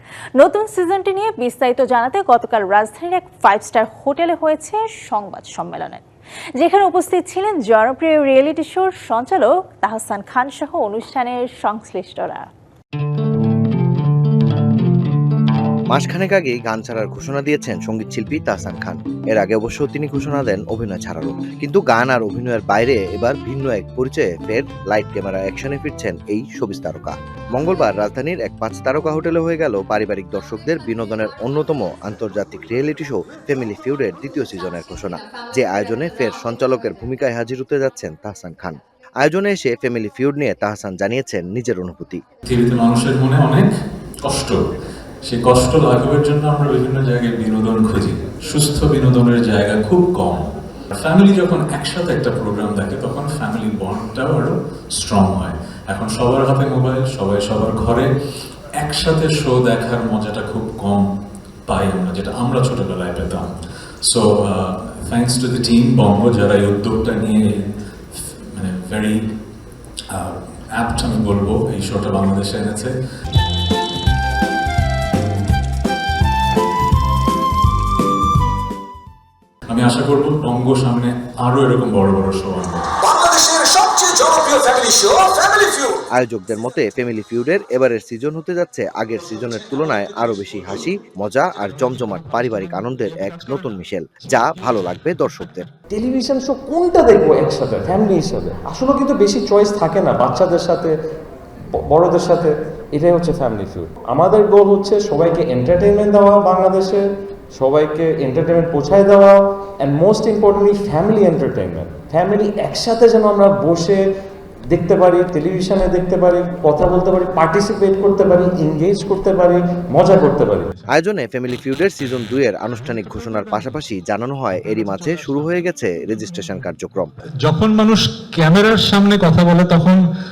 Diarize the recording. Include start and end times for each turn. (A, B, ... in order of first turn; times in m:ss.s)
0:00.4-0:06.0 A
0:06.6-0:12.5 A
0:15.9-0:42.2 B
0:42.4-0:43.6 C
0:44.2-0:44.6 C
0:45.2-0:58.1 C
0:58.8-1:01.0 C
1:01.7-1:03.5 C
1:04.0-1:07.6 C
1:08.1-1:09.2 C
1:10.1-1:12.9 C
1:19.7-1:23.0 C
1:23.1-1:25.9 D
1:26.1-1:35.6 B
1:35.9-1:40.9 E
1:41.9-1:47.0 E
1:47.6-1:54.0 E
1:54.7-2:00.7 E
2:00.9-2:07.1 B
2:07.4-2:10.0 F